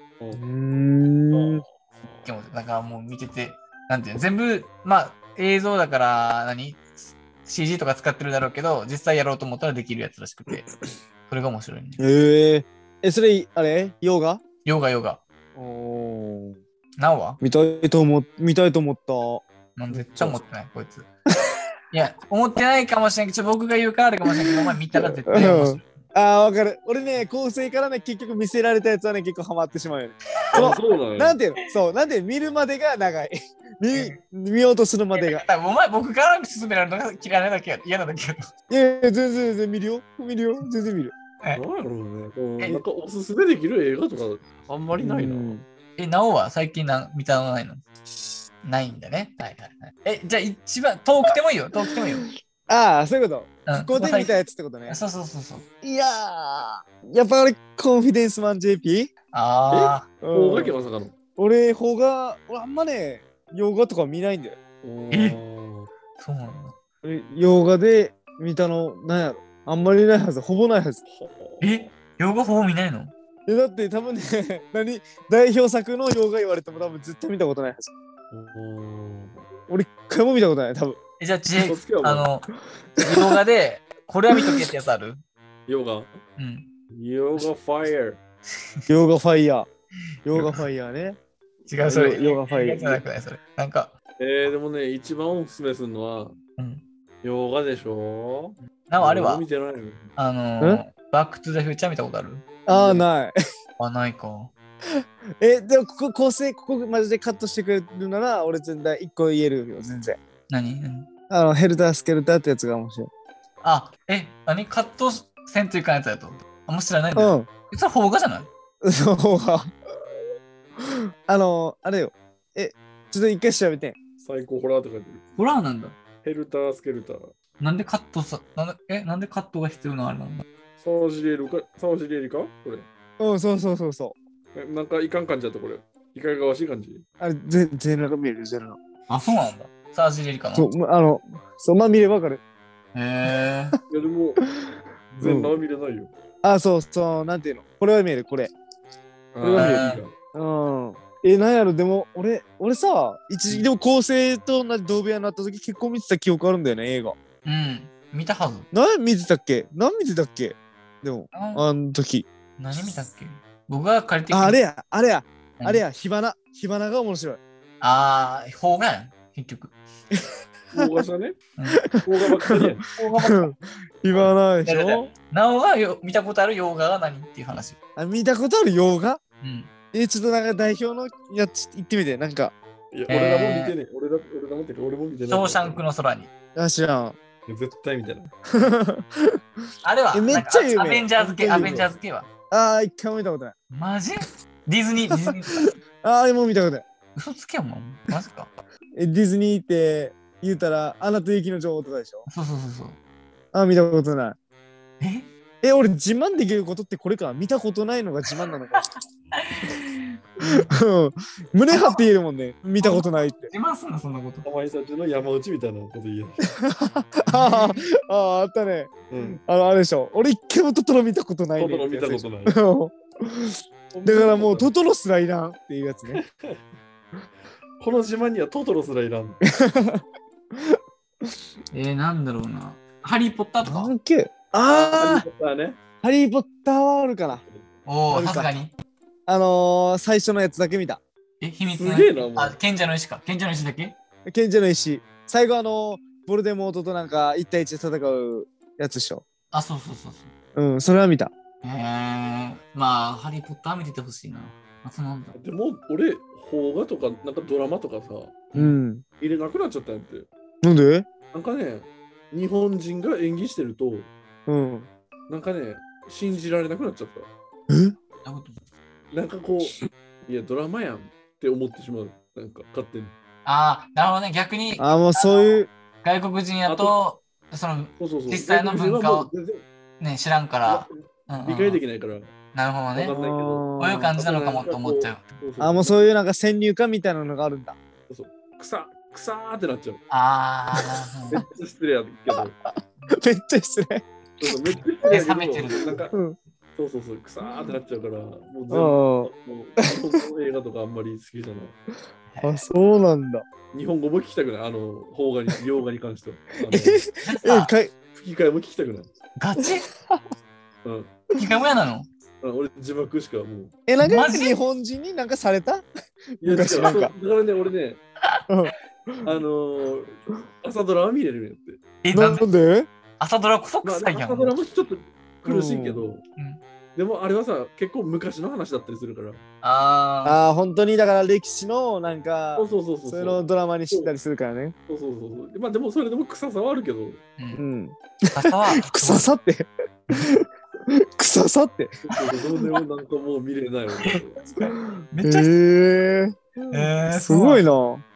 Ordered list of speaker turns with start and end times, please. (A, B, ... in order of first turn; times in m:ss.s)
0:00.3-0:01.6 A
0:01.3-0:02.3 B
0:02.2-0:10.7 C
0:11.3-0:12.0 C
0:12.0-0:14.4 A
0:14.6-0:15.2 C
0:15.6-0:16.6 A
0:17.0-0:17.4 C
0:17.4-0:19.4 A
0:19.8-0:21.1 C
0:21.9-0:25.9 C
0:25.3-0:35.4 A
0:30.5-0:31.4 B
0:33.9-0:34.2 C
0:35.2-0:38.5 C
0:38.7-0:41.1 A
0:41.6-0:45.6 B
0:45.0-0:45.6 A
0:46.0-0:47.9 C
0:48.6-0:52.3 C
0:52.7-0:55.0 A
0:53.7-0:54.3 C
0:54.9-0:55.7 C
0:55.8-0:59.1 A
0:59.3-1:00.1 C
0:59.7-1:01.1 B
1:00.2-1:00.8 A
1:01.4-1:04.6 A
1:04.8-1:05.9 B
1:05.1-1:05.4 C
1:06.2-1:06.8 C
1:07.0-1:11.0 A
1:11.1-1:11.7 B
1:11.6-1:13.1 C
1:13.5-1:17.9 A
1:18.3-1:19.4 B
1:19.7-1:21.0 A
1:21.2-1:22.5 C
1:21.6-1:22.3 B
1:23.0-1:23.3 A
1:23.0-1:25.2 C
1:24.4-1:24.6 A
1:25.7-1:26.1 B
1:26.4-1:26.7 C
1:26.9-1:28.2 B
1:28.9-1:29.7 A
1:30.3-1:31.2 A
1:30.4-1:30.6 C
1:31.7-1:33.9 C
1:31.9-1:33.0 A
1:34.2-1:36.4 B
1:36.6-1:36.8 C
1:37.2-1:40.1 B
1:38.9-1:39.4 C
1:40.2-1:42.5 C
1:42.7-1:43.4 A
1:42.7-1:43.0 B
1:43.8-1:44.5 C
1:45.0-1:50.2 A
1:50.5-1:51.1 C
1:51.3-1:53.1 A
1:53.6-1:58.5 C
1:57.2-1:57.5 A
1:58.8-1:59.7 A
2:00.8-2:04.0 A
2:04.2-2:05.2 B
2:05.4-2:06.0 C
2:06.2-2:07.3 B
2:07.6-2:10.5 C
2:10.8-2:12.8 B
2:13.2-2:14.2 A
2:14.6-2:17.0 B
2:17.2-2:18.8 A
2:19.1-2:20.7 C
2:20.6-2:22.4 A
2:22.9-2:23.8 C
2:23.9-2:24.4 B
2:25.1-2:26.1 B
2:25.2-2:25.5 A
2:26.4-2:28.5 A
2:29.3-2:30.1 B
2:29.4-2:37.2 A
2:29.6-2:30.0 C
2:37.4-2:38.7 C
2:38.7-2:42.2 A
2:41.3-2:41.6 C
2:42.6-2:44.6 C
2:44.3-2:47.4 A
2:45.6-2:45.8 C
2:47.8-2:49.8 C
2:50.7-2:51.4 B
2:51.6-2:51.8 C
2:51.8-2:55.1 A
2:52.0-2:52.9 B
2:53.0-2:53.5 C
2:54.6-2:57.8 C
2:58.0-2:59.2 A
2:59.4-2:59.7 C
2:59.9-3:02.5 A
3:02.9-3:05.8 B
3:03.1-3:03.8 C
3:05.3-3:06.3 C
3:06.6-3:07.2 A
3:07.5-3:08.3 B
3:08.5-3:09.4 A
3:09.8-3:12.3 C
3:10.1-3:11.8 A
3:11.2-3:11.9 B
3:12.5-3:13.5 A
3:13.7-3:15.8 C
3:16.0-3:16.8 A
3:17.2-3:18.5 C
3:19.0-3:22.2 A
3:22.3-3:23.0 C
3:23.5-3:24.4 A
3:25.0-3:25.3 C
3:25.6-3:28.8 A
3:28.8-3:30.7 C
3:30.4-3:33.5 A
3:31.7-3:32.0 C
3:32.8-3:34.5 C
3:34.4-3:36.5 B
3:36.5-3:46.2 A
3:37.3-3:37.8 C
3:39.1-3:39.4 B
3:41.6-3:42.6 B
3:43.9-3:44.7 B
3:46.1-3:46.6 B
3:47.8-3:49.4 B
3:49.5-3:51.3 A
3:51.7-3:53.9 C
3:53.6-3:55.2 A
3:54.6-3:55.8 B
3:56.0-3:57.4 A
3:57.9-3:58.7 C
3:58.1-3:58.5 A
3:59.3-4:01.0 A
4:01.4-4:04.0 C
4:01.8-4:02.6 B
4:04.3-4:09.2 A
4:09.5-4:10.3 C
4:10.6-4:11.3 A
4:11.6-4:15.4 C
4:15.3-4:18.5 B
4:18.5-4:19.0 A
4:19.2-4:20.3 B
4:20.6-4:21.1 A
4:21.3-4:24.1 B
4:24.5-4:24.9 A
4:25.3-4:27.3 B
4:27.7-4:28.0 A
4:28.2-4:28.6 C
4:29.1-4:33.1 B
4:33.5-4:39.3 C
4:34.8-4:35.7 A
4:36.7-4:37.0 B
4:38.0-4:39.6 B
4:40.0-4:41.8 C
4:40.7-4:42.3 B
4:42.5-4:43.1 C
4:42.9-4:46.1 B
4:43.1-4:44.1 A
4:43.8-4:45.3 C
4:45.6-4:47.8 A
4:48.1-4:50.0 B
4:50.1-4:51.4 C
4:51.3-4:52.6 B
4:52.3-4:54.0 A
4:54.4-4:56.2 B
4:55.0-4:56.1 C
4:56.8-5:01.8 B
4:58.7-4:59.3 A
5:02.3-5:02.6 C
5:02.4-5:03.4 A
5:03.7-5:07.0 B
5:06.6-5:07.9 A
5:07.2-5:07.7 C
5:08.1-5:09.1 B
5:09.4-5:09.9 C
5:09.6-5:10.2 A
5:10.8-5:11.2 B
5:11.4-5:12.1 C
5:12.4-5:13.7 B
5:13.9-5:15.8 A
5:14.0-5:14.6 C
5:16.4-5:17.1 A
5:16.4-5:18.0 B
5:18.5-5:19.3 A
5:19.2-5:21.8 B
5:22.0-5:22.4 C
5:22.1-5:22.9 A
5:23.2-5:24.5 C
5:23.8-5:26.2 B
5:25.4-5:26.1 A
5:27.0-5:29.4 B
5:29.6-5:30.4 C
5:30.2-5:34.8 A
5:32.6-5:34.1 B
5:34.9-5:37.2 B
5:37.4-5:37.6 C
5:37.6-5:42.0 A
5:38.3-5:39.3 C
5:42.1-5:44.4 B
5:44.0-5:45.5 C
5:44.8-5:48.0 A
5:46.7-5:47.6 C